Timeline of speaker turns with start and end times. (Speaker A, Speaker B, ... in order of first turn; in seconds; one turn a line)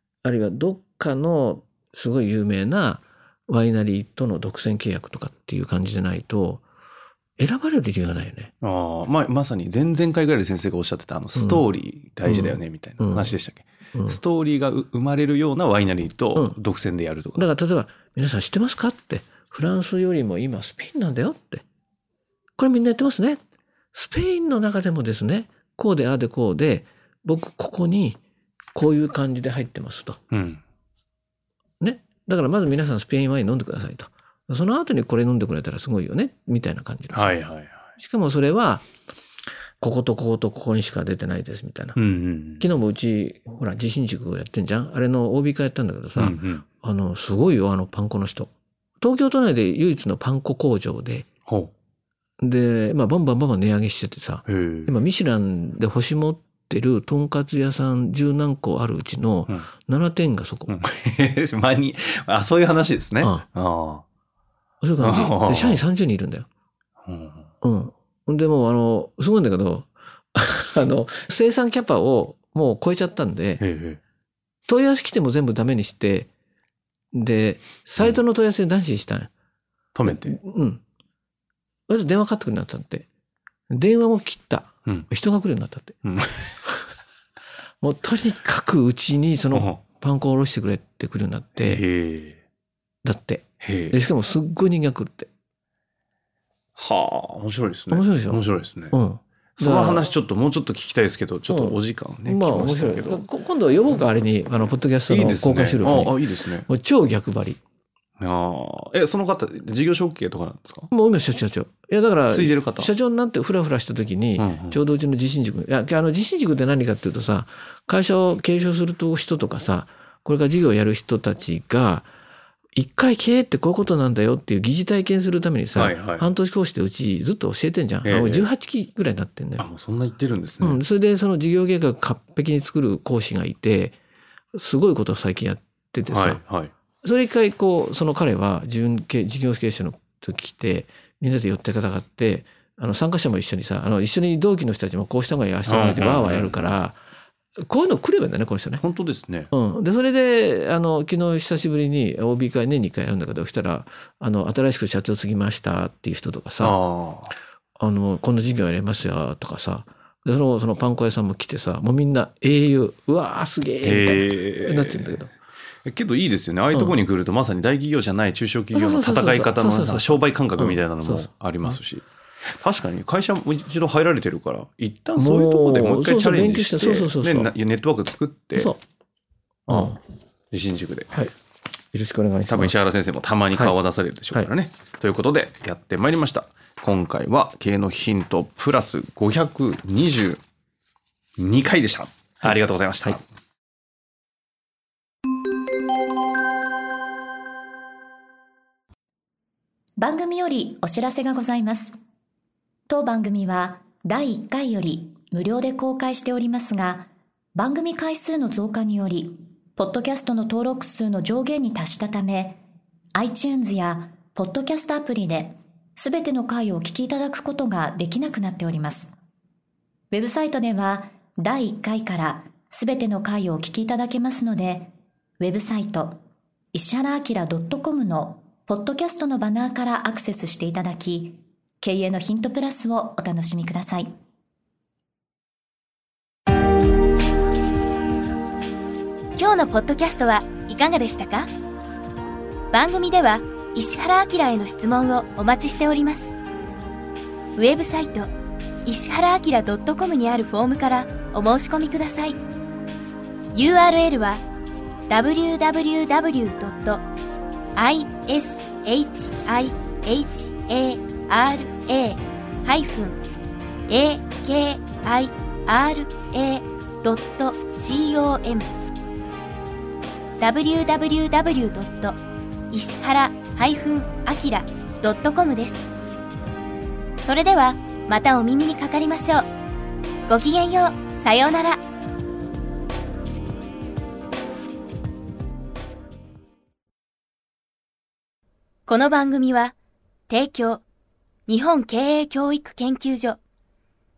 Speaker A: 0.2-6.6
Speaker A: 7.4-8.5
Speaker B: 8.6-17.4
Speaker A: 11.4-11.6
Speaker A: 12.2-13.3
Speaker A: 13.9-14.2
Speaker A: 17.4-21.6
Speaker A: 22.6-23.4
Speaker A: 23.9-28.2
Speaker A: 28.8-30.2
Speaker B: 30.3-30.6
Speaker A: 31.8-37.4
Speaker B: 37.1-37.8
Speaker A: 38.0-38.9
Speaker A: 39.8-42.0
Speaker B: 42.0-42.7
Speaker A: 42.6-51.3
Speaker B: 46.2-46.6
Speaker B: 51.5-51.7
Speaker A: 52.4-60.8
Speaker B: 54.5-54.9
Speaker B: 60.7-64.0
Speaker A: 64.8-66.5
Speaker B: 65.0-65.8
Speaker B: 67.0-67.4
Speaker A: 67.6-73.6
Speaker B: 73.6-74.0
Speaker A: 74.7-76.3
Speaker A: 77.1-79.3
Speaker B: 80.0-80.4
Speaker A: 80.1-80.8
Speaker A: 81.9-83.1
Speaker A: 83.7-86.0
Speaker B: 86.0-86.6
Speaker A: 87.8-91.8
Speaker B: 89.5-89.8
Speaker B: 91.6-92.4
Speaker A: 93.0-95.3
Speaker B: 93.6-94.0
Speaker B: 96.8-99.0
Speaker A: 97.9-100.1
Speaker B: 99.6-103.3
Speaker A: 101.5-107.6
Speaker B: 105.1-106.7
Speaker B: 108.2-110.9
Speaker A: 110.9-122.1
Speaker B: 112.3-112.9
Speaker B: 114.4-114.8
Speaker A: 122.8-129.7
Speaker B: 125.8-126.3
Speaker B: 128.1-128.5
Speaker B: 129.6-130.8
Speaker A: 130.6-134.0
Speaker A: 134.6-136.4
Speaker B: 136.1-136.7
Speaker A: 137.0-147.0
Speaker B: 145.7-146.7
Speaker A: 147.6-148.8
Speaker B: 148.8-149.5
Speaker A: 149.5-156.8
Speaker B: 156.6-157.3
Speaker A: 157.8-165.3
Speaker B: 163.8-165.1
Speaker B: 165.9-172.0
Speaker A: 168.7-171.8
Speaker B: 172.6-178.7
Speaker A: 175.2-177.5
Speaker A: 178.6-178.8
Speaker B: 179.7-180.0
Speaker A: 179.7-180.0
Speaker B: 180.5-181.2
Speaker A: 181.9-182.8
Speaker B: 182.5-190.4
Speaker B: 191.4-193.2
Speaker C: 200.0-202.0
Speaker C: 202.9-212.6
Speaker C: 213.2-219.1
Speaker C: 220.1-226.2
Speaker C: 226.7-234.1
Speaker D: 239.4-241.5
Speaker D: 242.7-246.3
Speaker D: 247.6-248.3
Speaker D: 248.8-252.4
Speaker D: 253.5-254.4
Speaker D: 255.1-257.0
Speaker D: 257.8-263.2
Speaker D: 263.9-268.7
Speaker D: 270.4-272.2
Speaker D: 272.7-275.8
Speaker D: 277.2-279.5
Speaker D: 280.3-281.8
Speaker D: 288.9-289.8
Speaker D: 290.3-290.8
Speaker D: 291.5-293.4